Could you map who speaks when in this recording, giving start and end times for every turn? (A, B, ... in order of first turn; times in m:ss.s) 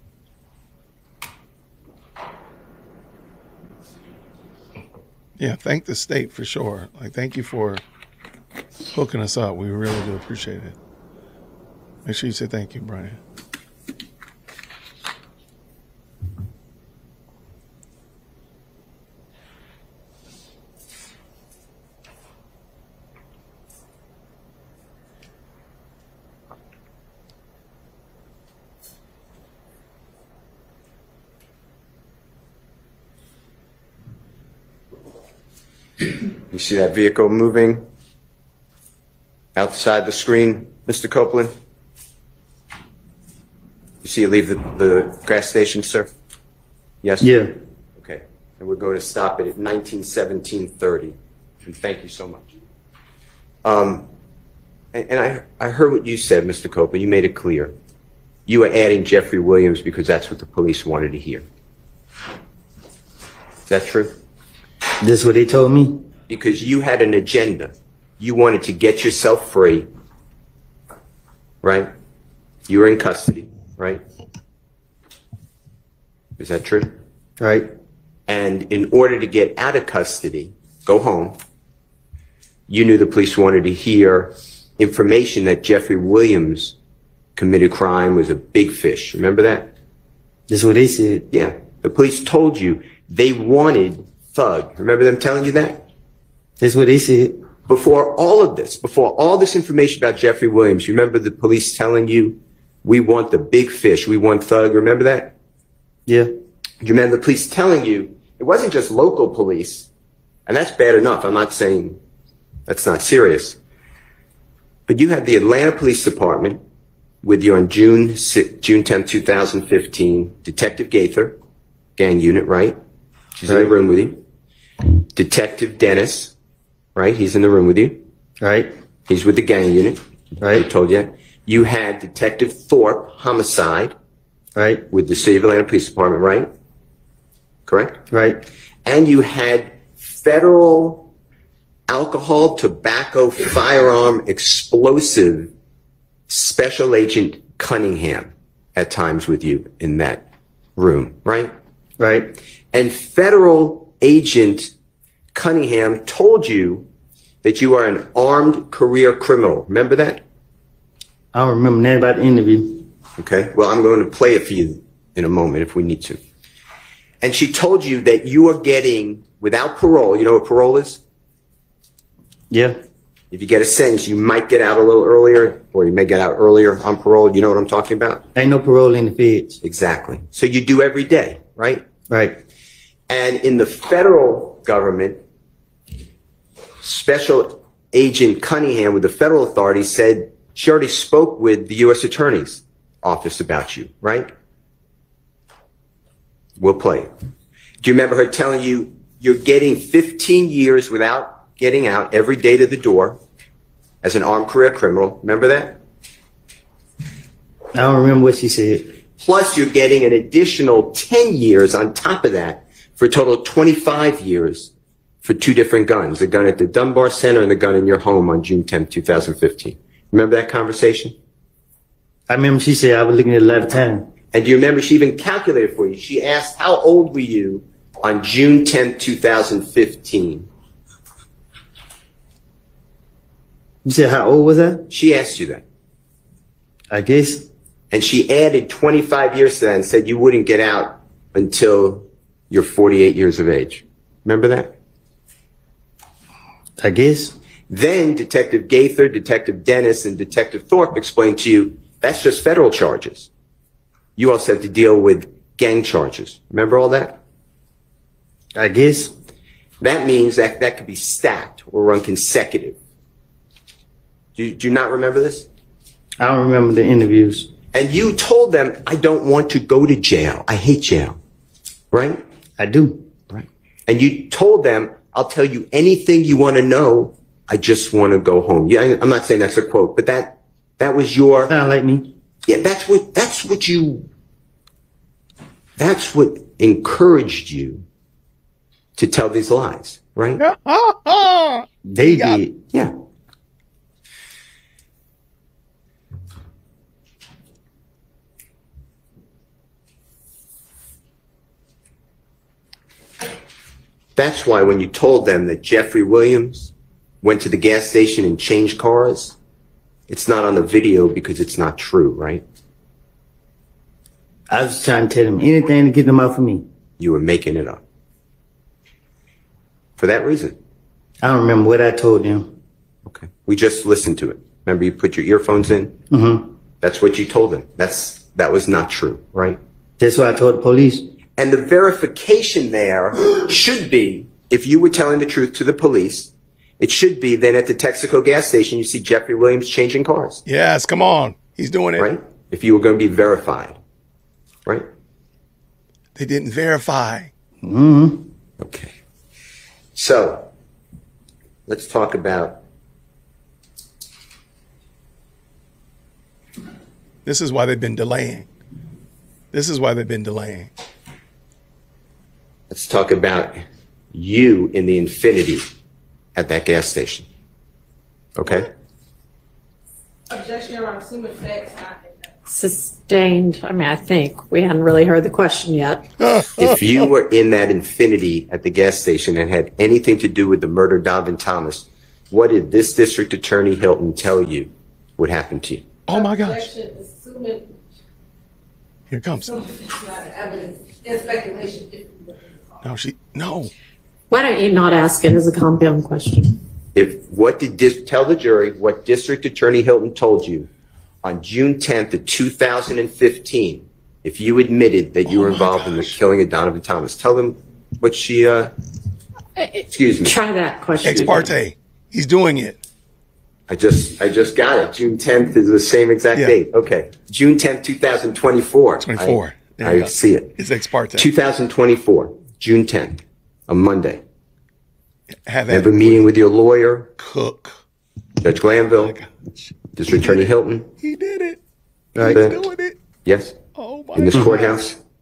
0:05.4-0:07.8 A
0:08.9-0:10.8 A
0:12.0-0:13.2 A
0:36.5-0:37.8 B
0:39.5-0:41.5 B
0:44.0-0:46.1 B
0:47.0-0:47.3 B
0:47.2-0:47.5 C
0:48.0-0:52.5 B
0:53.6-0:54.1 B
0:54.9-0:57.8 B
0:58.4-1:01.4 B
1:03.7-1:04.2 B
1:05.0-1:06.0 C
1:06.3-1:09.9 B
1:11.6-1:11.9 B
1:12.7-1:14.0 B
1:16.4-1:17.0 B
1:17.4-1:17.7 C
1:18.3-1:21.4 B
1:22.7-1:26.8 B
1:27.4-1:29.7 B
1:30.5-1:31.3 C
1:31.3-1:35.8 B
1:36.6-1:37.4 C
1:37.7-1:45.3 B
1:46.8-1:49.9 B
1:50.5-1:52.0 B
1:52.7-1:53.6 B
1:54.9-1:56.6 B
1:57.2-2:01.4 B
2:02.0-2:02.8 B
2:03.4-2:04.2 B
2:03.5-2:03.7 C
2:05.1-2:06.3 B
2:06.9-2:08.0 B
2:08.4-2:08.7 C
2:09.1-2:13.9 B
2:10.4-2:10.6 C
2:14.6-2:14.8 C
2:14.9-2:16.5 B
2:17.7-2:18.0 B
2:18.1-2:18.4 C
2:18.8-2:21.1 B
2:21.9-2:25.5 B
2:26.3-2:30.2 B
2:30.8-2:31.5 B
2:32.0-2:32.3 C
2:32.7-2:34.7 B
2:35.3-2:36.9 B
2:37.4-2:40.2 B
2:41.3-2:42.8 C
2:43.2-2:46.2 B
2:47.2-2:51.0 B
2:52.5-2:52.8 C
2:53.3-2:58.2 B
2:58.3-2:59.6 C
2:59.6-3:01.9 B
3:02.1-3:02.4 C
3:03.1-3:05.2 B
3:06.8-3:14.3 B
3:16.6-3:17.1 B
3:17.8-3:23.2 B
3:24.0-3:25.8 B
3:27.7-3:29.0 C
3:29.2-3:34.7 B
3:35.2-3:41.2 B
3:42.3-3:44.1 C
3:44.3-3:50.5 B
3:53.8-3:54.8 C
3:54.9-3:55.6 B
3:56.9-3:57.5 C
3:57.9-4:04.7 B
4:06.8-4:07.3 C
4:07.7-4:13.3 B
4:14.2-4:17.2 B
4:18.5-4:19.1 C
4:19.8-4:22.8 B
4:24.3-4:25.5 B
4:26.2-4:27.5 C
4:27.7-4:31.2 B
4:31.9-4:32.2 B
4:32.6-4:33.0 C
4:33.3-4:41.5 B
4:41.5-4:42.1 C
4:42.4-4:44.1 B
4:45.8-4:47.8 B
4:49.0-4:50.4 B
4:50.4-4:52.4 A
4:51.8-4:52.6 C
5:04.2-5:09.4 B
5:10.1-5:12.4 B
5:14.5-5:16.6 C
5:17.0-5:17.8 B
5:20.0-5:20.6 B
5:21.2-5:22.5 C
5:23.0-5:26.0 B
5:26.1-5:26.5 C
5:26.8-5:29.3 B
5:29.3-5:31.0 C
5:31.4-5:40.4 B
5:40.4-5:42.1 A
5:42.0-5:43.8 B
5:46.1-5:47.3 A
5:47.6-5:48.3 C
5:48.6-5:48.9 B
5:49.9-5:50.5 B
5:51.7-5:52.6 B
5:57.2-5:58.5 A
5:59.5-6:00.7 A
6:02.7-6:05.7 B
6:06.3-6:07.3 B
6:08.4-6:08.7 B
6:10.3-6:12.4 D
6:12.5-6:16.0 E
6:16.2-6:17.1 A
6:16.6-6:26.0 B
6:26.1-6:26.7 A
6:26.1-6:27.8 D
6:29.1-6:29.6 A
6:29.4-6:32.8 D
6:32.8-6:33.7 A
6:34.3-6:36.6 E
6:36.9-6:40.7 B
6:41.2-6:48.7 B
6:45.2-6:46.2 A
6:49.6-6:51.5 E
6:49.9-6:50.4 B
6:51.0-6:52.8 A
6:51.1-6:51.4 B
6:53.7-7:00.6 B
6:59.0-7:01.3 A
7:01.1-7:04.2 B
7:05.4-7:06.3 A
7:05.7-7:07.1 B
7:07.2-7:07.8 A
7:08.4-7:09.2 B
7:09.0-7:11.6 A
7:09.9-7:10.9 B
7:12.2-7:12.4 C
7:12.2-7:13.0 A
7:12.2-7:12.6 B
7:13.2-7:13.6 B
7:13.7-7:14.9 A
7:14.1-7:15.0 B
7:14.3-7:14.6 C